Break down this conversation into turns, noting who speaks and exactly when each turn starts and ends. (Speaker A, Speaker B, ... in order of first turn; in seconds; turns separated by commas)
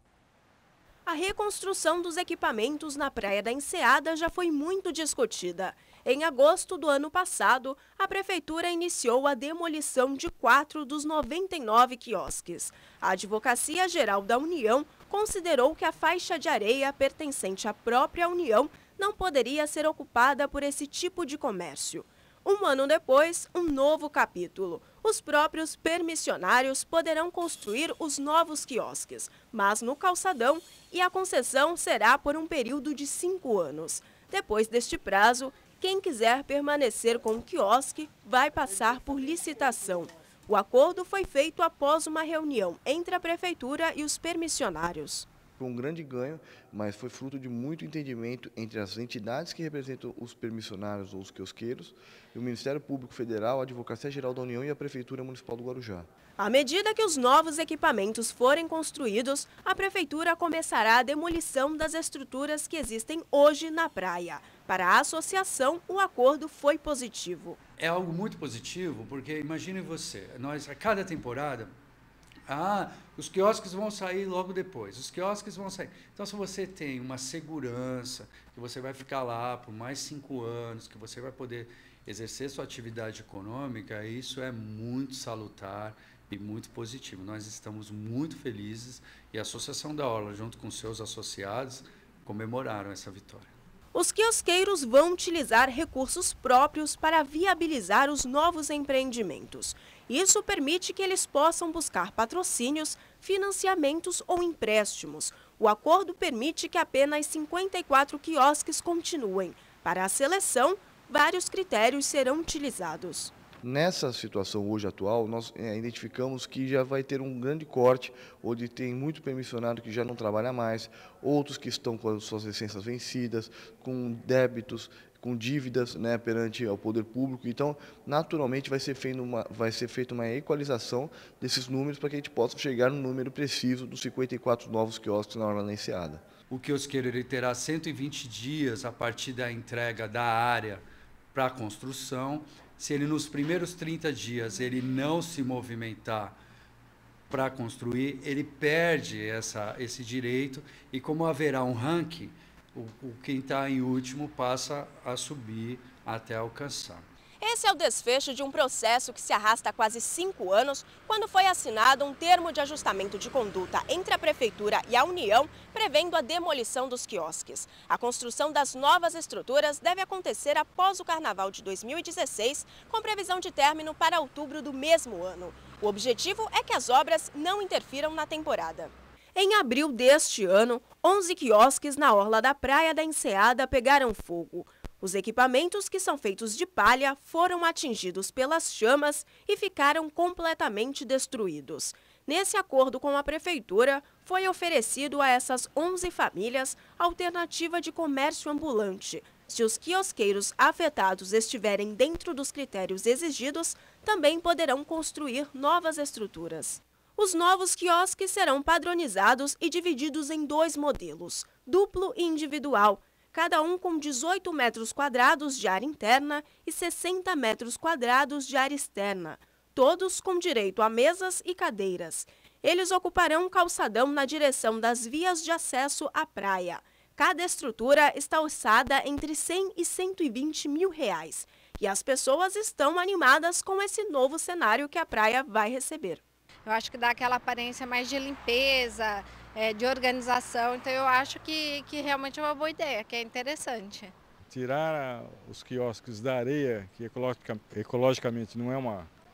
Speaker A: 1.1-45.3, Speaker B: 45.6-56.1, Speaker A: 56.4-67.6, Speaker C: 67.8-71.7, Speaker C: 72.5-93.5, Speaker A: 93.9-113.3, Speaker B: 113.6-136.2, Speaker C: 136.5-146.4, Speaker C: 147.3-157.1, Speaker A: 157.4-236.2, Speaker D: 236.7-244.1, Speaker E: 244.5-249.1